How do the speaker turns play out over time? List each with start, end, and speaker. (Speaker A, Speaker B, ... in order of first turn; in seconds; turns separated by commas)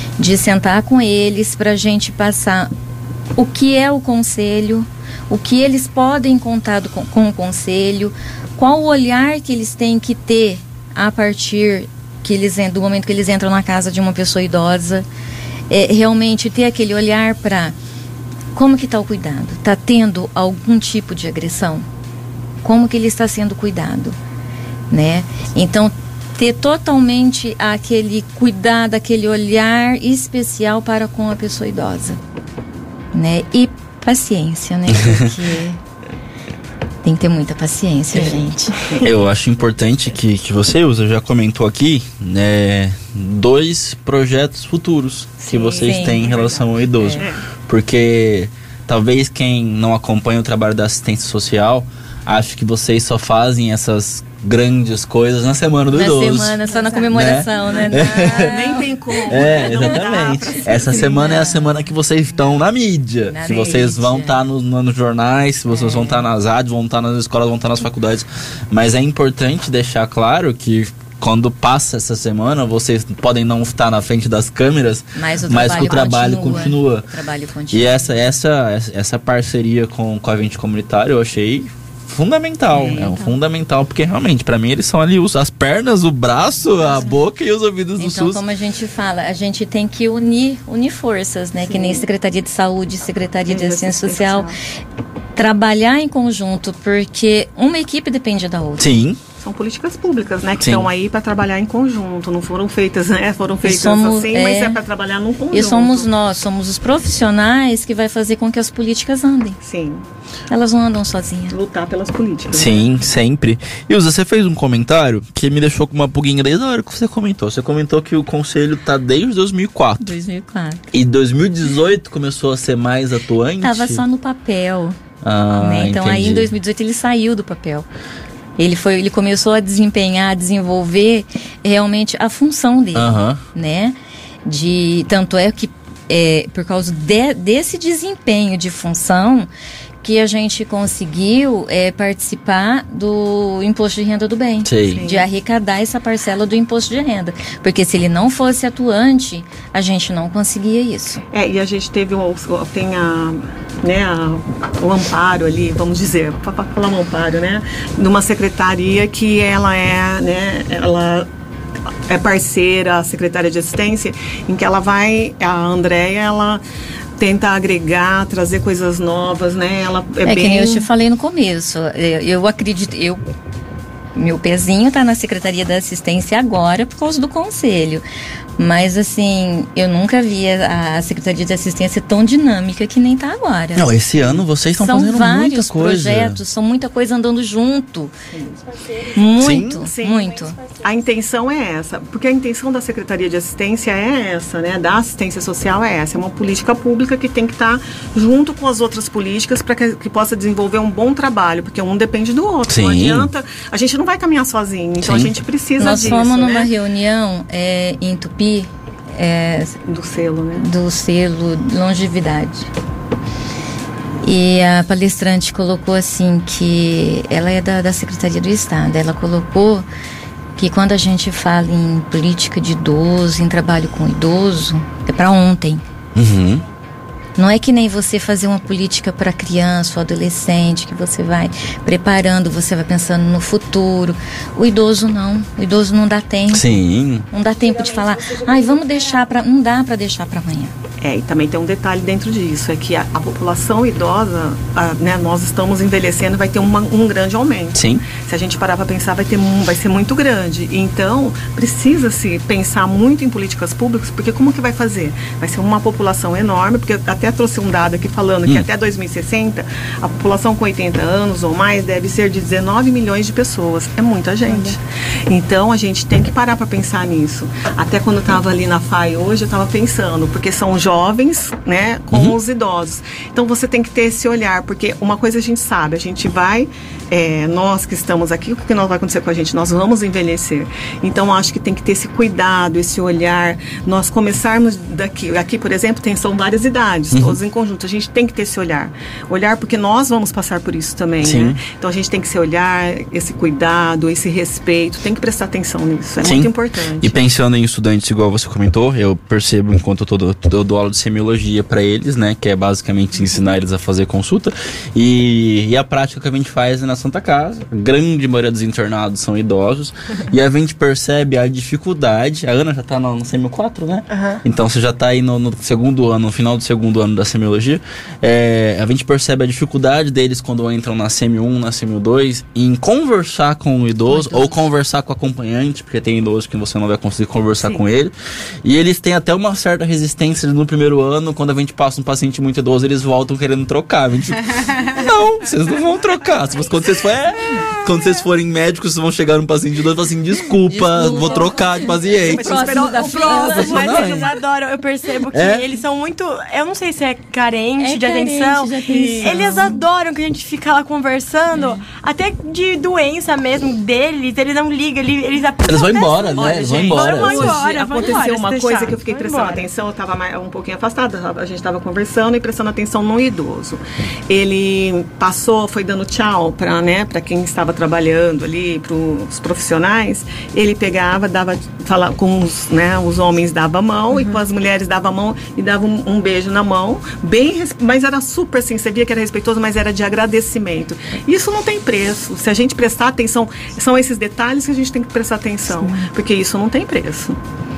Speaker A: 0.2-2.7, Speaker A: 3.4-15.1, Speaker A: 15.7-17.7, Speaker A: 18.5-21.8, Speaker A: 22.6-24.2, Speaker A: 24.9-32.2, Speaker A: 33.1-35.8, Speaker B: 34.9-35.3, Speaker A: 37.0-38.8, Speaker B: 39.0-77.1, Speaker C: 45.4-47.4, Speaker A: 45.7-46.2, Speaker A: 46.9-47.2, Speaker A: 55.9-59.9, Speaker C: 57.7-61.3, Speaker A: 60.9-62.6, Speaker A: 63.2-64.4, Speaker A: 65.7-66.3, Speaker A: 75.1-78.3, Speaker B: 77.7-88.4, Speaker A: 82.8-83.3, Speaker C: 82.8-83.2, Speaker A: 86.8-87.2, Speaker A: 88.0-94.5, Speaker C: 91.6-92.0, Speaker C: 93.5-94.6, Speaker A: 95.3-98.9, Speaker B: 98.8-99.2, Speaker C: 99.4-106.1, Speaker B: 100.6-100.9, Speaker A: 103.6-104.8, Speaker A: 105.5-109.6, Speaker C: 109.6-110.0, Speaker A: 110.5-111.6, Speaker C: 111.5-112.8, Speaker B: 112.5-120.1, Speaker A: 120.0-120.8, Speaker B: 120.9-124.0, Speaker A: 123.6-125.0, Speaker B: 125.2-126.5, Speaker A: 125.6-127.8, Speaker A: 128.6-139.5, Speaker B: 132.9-133.4, Speaker A: 140.0-151.2, Speaker B: 144.6-145.0, Speaker C: 144.9-145.3, Speaker C: 151.3-161.3, Speaker C: 162.1-166.6, Speaker C: 167.2-170.9, Speaker A: 170.2-173.2, Speaker A: 174.1-178.0, Speaker A: 178.6-183.9, Speaker B: 183.7-186.4, Speaker A: 184.8-188.1, Speaker C: 188.3-188.6, Speaker A: 189.1-190.6, Speaker B: 189.4-189.8, Speaker C: 189.7-206.7, Speaker B: 202.7-203.3, Speaker B: 205.0-205.3, Speaker A: 205.8-209.8, Speaker C: 209.8-210.7, Speaker A: 210.6-212.7, Speaker A: 214.2-219.8, Speaker A: 220.6-225.8, Speaker B: 226.1-226.6, Speaker A: 227.4-236.7, Speaker B: 236.5-237.3, Speaker A: 237.3-240.7, Speaker D: 237.8-238.9, Speaker C: 241.0-297.2, Speaker B: 247.7-248.0, Speaker B: 287.1-287.4, Speaker B: 291.2-291.6, Speaker B: 296.2-344.3, Speaker A: 324.1-324.6, Speaker A: 340.7-344.3, Speaker D: 342.2-359.6, Speaker B: 345.3-345.6, Speaker A: 347.8-349.8, Speaker A: 351.5-351.8, Speaker B: 355.6-357.6, Speaker C: 356.4-387.4